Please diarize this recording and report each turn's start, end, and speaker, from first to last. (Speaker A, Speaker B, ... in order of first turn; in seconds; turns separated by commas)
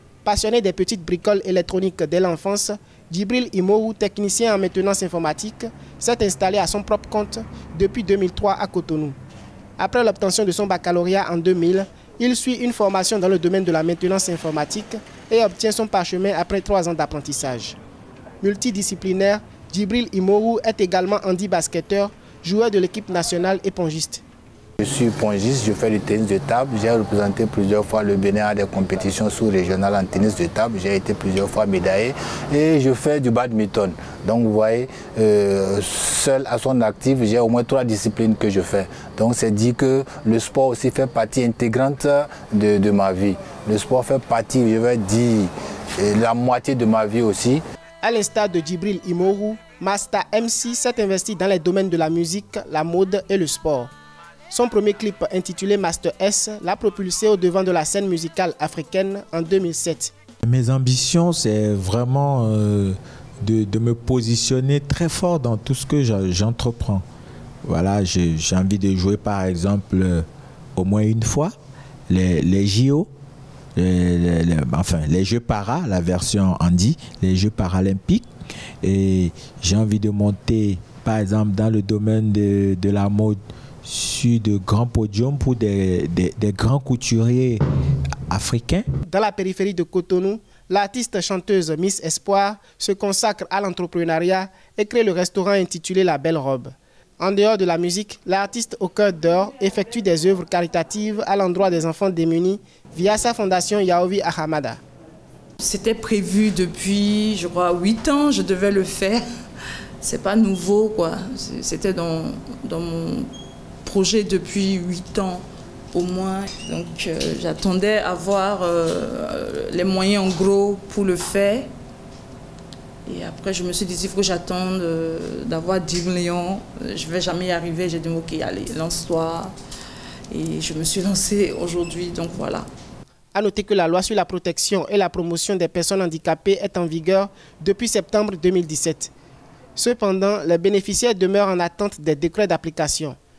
Speaker A: 0.2-9.2, Speaker A: 9.8-17.8, Speaker A: 18.4-24.2, Speaker B: 24.8-47.6, Speaker A: 48.0-53.9, Speaker A: 54.5-60.1, Speaker C: 60.5-67.0, Speaker C: 67.7-71.5, Speaker C: 72.1-73.1, Speaker C: 73.8-78.3, Speaker C: 78.8-87.6, Speaker C: 88.3-88.8, Speaker A: 89.1-104.8, Speaker D: 105.6-109.2, Speaker D: 110.0-113.3, Speaker D: 113.8-121.7, Speaker D: 123.1-129.5, Speaker D: 130.3-132.7, Speaker A: 133.3-139.1, Speaker A: 139.8-143.2